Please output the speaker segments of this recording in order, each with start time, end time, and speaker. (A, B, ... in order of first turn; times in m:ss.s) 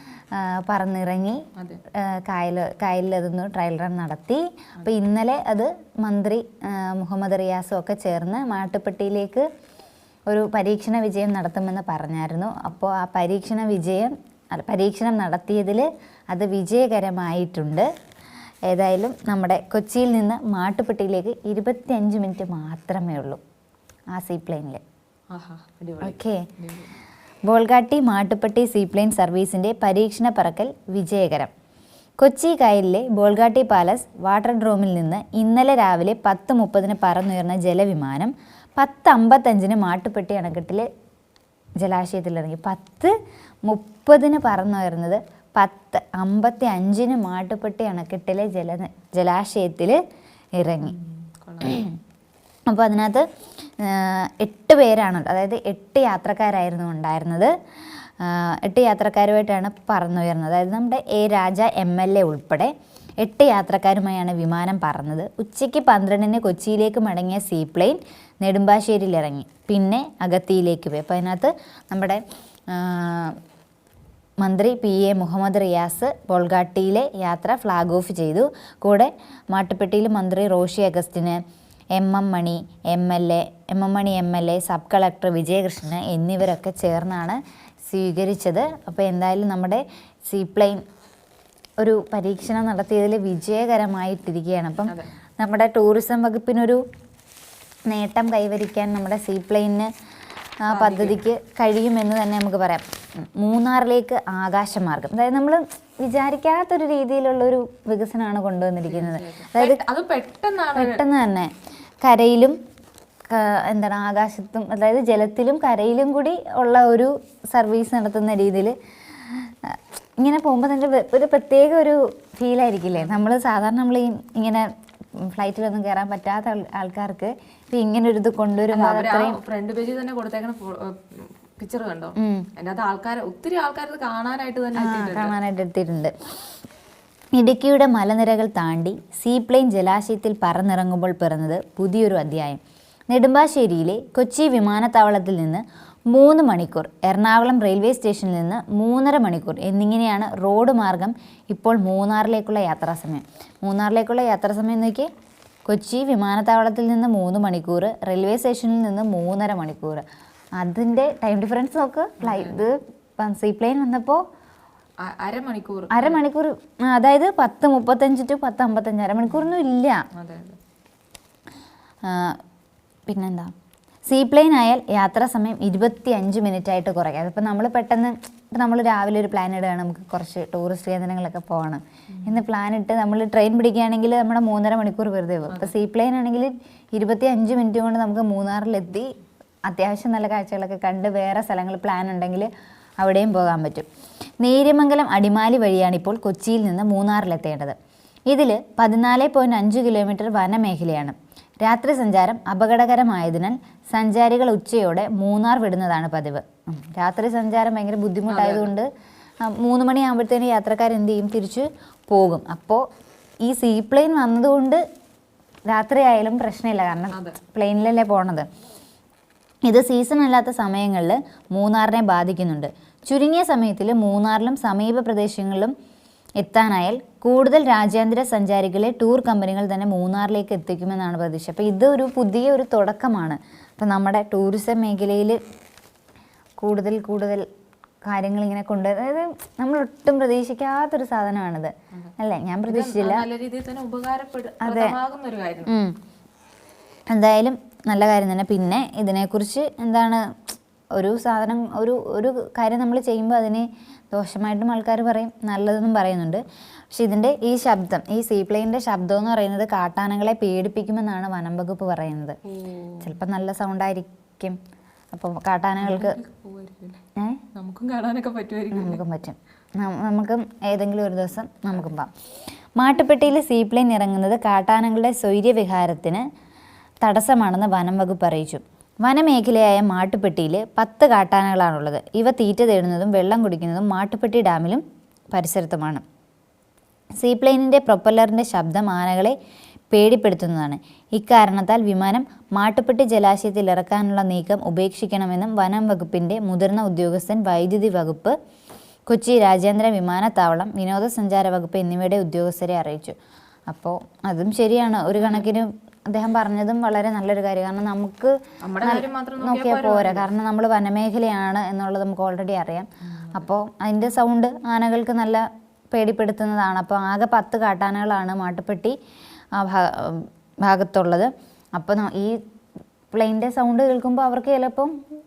0:00.3-0:09.4 A
0:01.6-0:01.8 B
0:10.3-0:17.9 A
0:18.7-0:23.4 A
0:24.1-0:24.8 A
0:25.3-0:27.0 B
0:26.0-0:26.4 A
0:27.5-0:31.5 A
0:32.2-0:40.8 A
0:41.8-0:43.1 A
0:43.6-0:50.0 A
0:50.6-0:50.9 A
0:50.8-0:51.9 B
0:51.6-0:52.0 A
0:52.7-0:53.2 A
0:53.8-0:57.5 A
0:58.0-1:13.4 A
1:14.4-1:21.4 A
1:21.9-1:30.8 A
1:31.8-1:36.8 A
1:37.9-1:39.9 A
1:40.6-1:49.8 A
1:40.7-1:41.2 B
1:48.8-1:51.0 B
1:50.8-1:52.6 A
1:53.3-2:04.7 A
2:02.9-2:03.2 B
2:05.2-2:09.4 A
2:08.7-2:15.3 B
2:12.2-2:12.5 A
2:14.8-2:16.1 A
2:17.3-2:35.1 A
2:35.7-2:40.0 A
2:40.6-2:44.2 A
2:42.2-2:42.6 B
2:45.0-2:46.2 B
2:45.9-2:50.0 A
2:50.1-2:50.6 B
2:52.0-2:52.4 A
2:53.1-2:53.5 A
2:54.1-3:09.1 A
3:02.1-3:02.4 B
3:05.5-3:05.7 B
3:09.6-3:13.9 A
3:14.4-3:17.8 A
3:18.3-3:28.9 A
3:28.3-3:28.7 B
3:29.4-3:32.8 A
3:33.4-3:34.8 A
3:35.7-3:38.5 A
3:37.1-3:37.4 B
3:39.6-3:45.7 A
3:46.4-3:55.4 A
3:56.6-3:57.4 A
3:58.0-4:03.2 A
4:02.6-4:05.7 B
4:04.6-4:05.0 A
4:05.7-4:05.9 A
4:07.1-4:22.4 A
4:22.4-4:23.1 B
4:23.0-4:24.6 A
4:25.1-4:26.2 A
4:25.8-4:27.0 B
4:27.2-4:27.4 A
4:27.5-4:29.0 B
4:28.7-4:32.1 A
4:32.8-4:36.2 A
4:37.0-4:46.0 A
4:47.2-4:49.3 A
4:49.9-4:58.3 A
4:59.1-5:03.2 A
5:03.7-5:18.9 A
5:05.1-5:05.4 B
5:08.6-5:10.3 B
5:13.1-5:13.4 B
5:19.5-5:22.4 A
5:23.1-5:24.9 A